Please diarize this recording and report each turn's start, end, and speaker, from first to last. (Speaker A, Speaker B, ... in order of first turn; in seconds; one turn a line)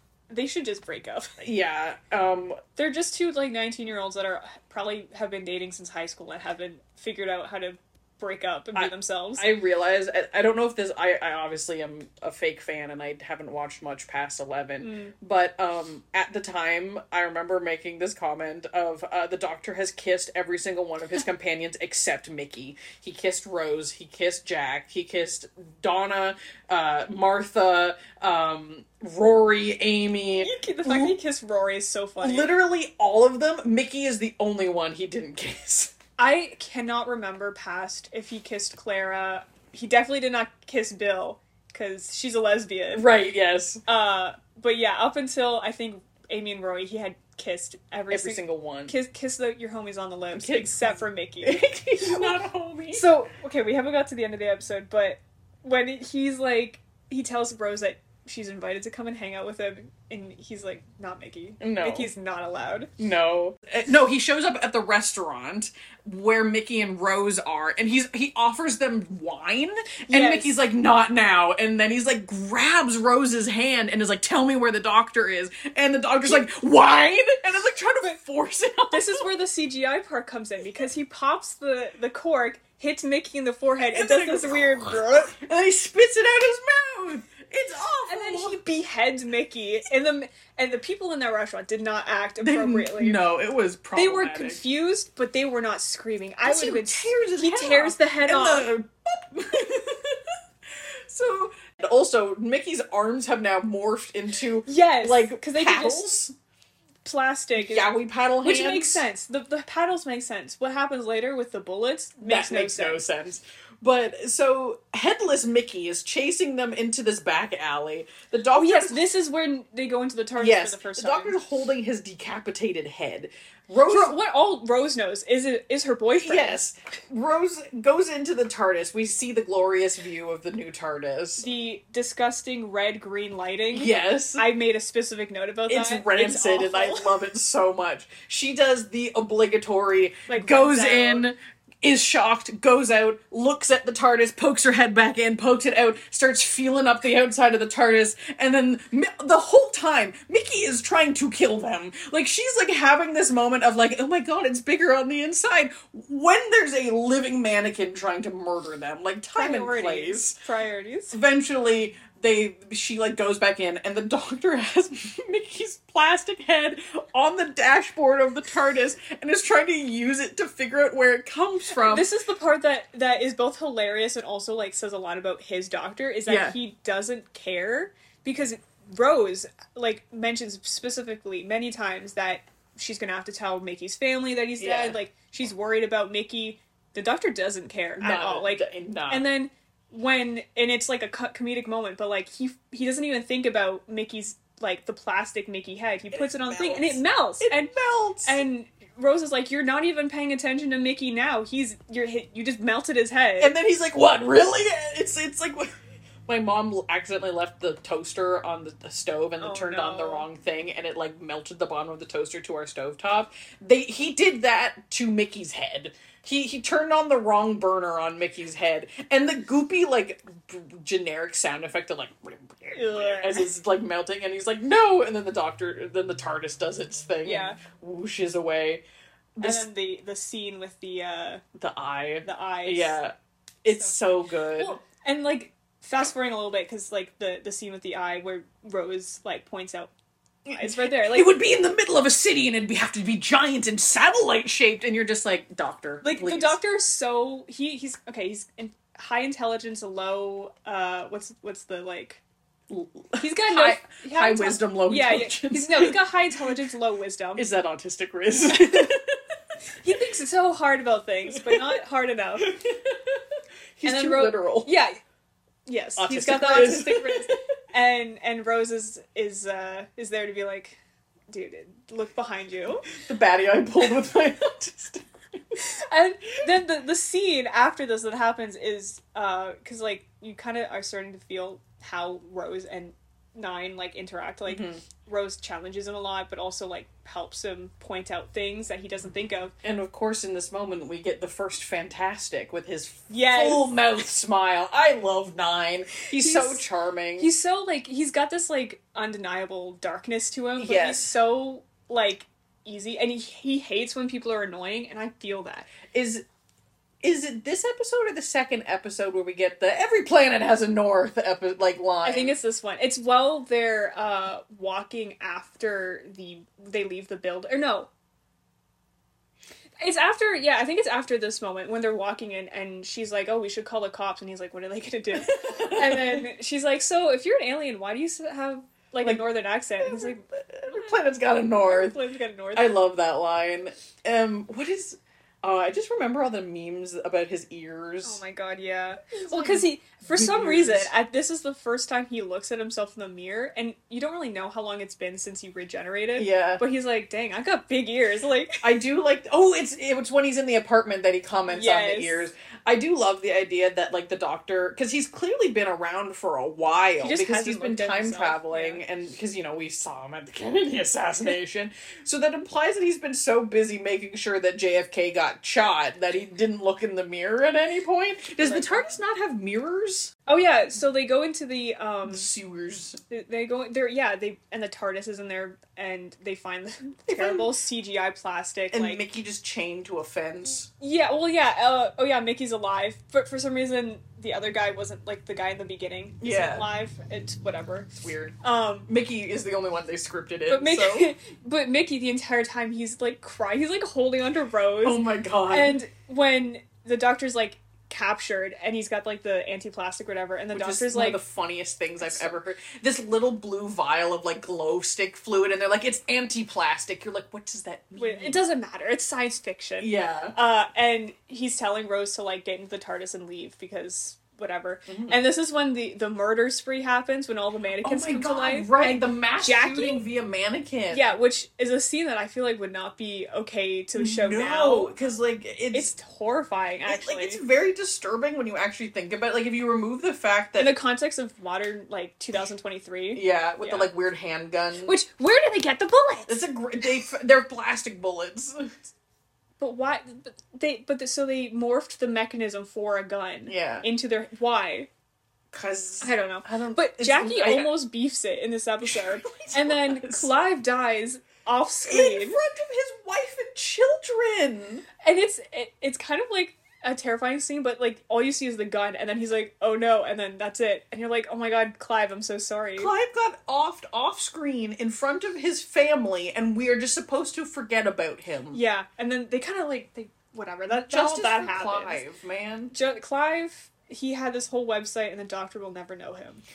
Speaker A: 0.3-1.3
Speaker B: 1.4-2.6
Speaker A: 2.8-9.5
Speaker B: 8.7-31.2
Speaker A: 14.8-15.1
Speaker A: 30.3-32.5
Speaker B: 32.2-35.9
Speaker A: 36.2-43.0
Speaker B: 42.9-43.8
Speaker A: 43.9-52.4
Speaker B: 48.1-48.9
Speaker B: 50.3-53.1
Speaker A: 52.9-62.9
Speaker B: 61.6-62.1
Speaker B: 63.0-79.2
Speaker A: 70.1-70.5
Speaker A: 78.9-85.3
Speaker B: 83.8-88.6
Speaker A: 88.0-93.2
Speaker B: 92.4-94.6
Speaker A: 93.9-98.7
Speaker B: 96.4-100.3
Speaker B: 101.1-106.3
Speaker A: 104.6-106.1
Speaker A: 107.0-107.9
Speaker B: 107.6-109.0
Speaker A: 108.4-113.0
Speaker B: 112.2-119.0
Speaker A: 118.5-121.4
Speaker B: 120.4-124.2
Speaker A: 123.8-126.6
Speaker B: 126.2-131.4
Speaker A: 131.4-137.1
Speaker B: 133.7-134.4
Speaker B: 135.7-160.4
Speaker A: 140.3-141.3
Speaker A: 159.3-161.2
Speaker B: 161.1-172.1
Speaker A: 171.7-203.5
Speaker B: 176.3-176.6
Speaker B: 184.6-185.0
Speaker B: 188.0-189.2
Speaker B: 196.1-198.4
Speaker B: 203.4-205.7
Speaker B: 206.2-228.8
Speaker A: 209.4-210.2
Speaker A: 222.7-223.5
Speaker A: 227.2-227.6
Speaker B: 229.4-229.7
Speaker A: 229.4-231.4
Speaker B: 231.6-234.8
Speaker A: 232.2-233.0
Speaker A: 234.6-239.9
Speaker B: 240.5-246.6
Speaker A: 240.5-241.3
Speaker A: 246.0-252.2
Speaker B: 252.7-256.0
Speaker A: 253.2-257.4
Speaker B: 257.4-259.2
Speaker A: 258.4-258.9
Speaker A: 259.8-262.5
Speaker B: 261.3-261.7
Speaker B: 262.4-263.2
Speaker B: 263.8-264.7
Speaker A: 263.8-265.0
Speaker A: 265.6-270.8
Speaker B: 266.0-267.4
Speaker A: 271.3-272.9
Speaker B: 272.9-275.1
Speaker A: 275.6-289.5
Speaker B: 284.5-284.8
Speaker B: 289.6-297.3
Speaker A: 293.1-293.7
Speaker A: 296.1-296.6
Speaker A: 297.2-305.7
Speaker B: 300.6-301.1
Speaker B: 305.9-306.2
Speaker B: 307.0-312.4
Speaker A: 312.0-317.9
Speaker A: 319.8-331.0
Speaker B: 325.2-326.2
Speaker B: 329.8-332.0
Speaker A: 331.6-332.7
Speaker B: 332.5-338.2
Speaker A: 338.0-348.6
Speaker B: 339.2-340.9
Speaker B: 346.1-346.6
Speaker B: 348.6-370.1
Speaker A: 351.5-352.3
Speaker A: 357.0-358.8
Speaker A: 368.4-368.9
Speaker A: 370.3-372.3
Speaker B: 372.1-373.0
Speaker A: 373.1-379.0
Speaker B: 377.1-377.5
Speaker B: 378.7-380.7
Speaker A: 380.8-387.9
Speaker B: 386.2-386.7
Speaker B: 388.0-391.1
Speaker A: 388.4-388.9
Speaker A: 390.5-401.2
Speaker B: 394.8-395.8
Speaker B: 400.5-408.4
Speaker A: 402.0-402.3
Speaker A: 408.0-420.0
Speaker B: 409.8-410.4
Speaker B: 414.9-415.2
Speaker B: 417.8-421.1
Speaker A: 420.9-424.9
Speaker B: 423.9-425.9
Speaker A: 425.7-427.4
Speaker B: 426.9-430.7
Speaker A: 430.6-433.9
Speaker B: 433.1-434.9
Speaker A: 434.8-436.4
Speaker B: 436.3-438.8
Speaker A: 439.6-444.9
Speaker B: 443.5-443.9
Speaker B: 445.5-447.7
Speaker A: 446.0-452.4
Speaker B: 448.8-450.3
Speaker B: 451.8-454.9
Speaker A: 455.0-462.9
Speaker B: 462.8-468.6
Speaker A: 468.5-472.0
Speaker B: 470.7-472.7
Speaker A: 472.7-476.4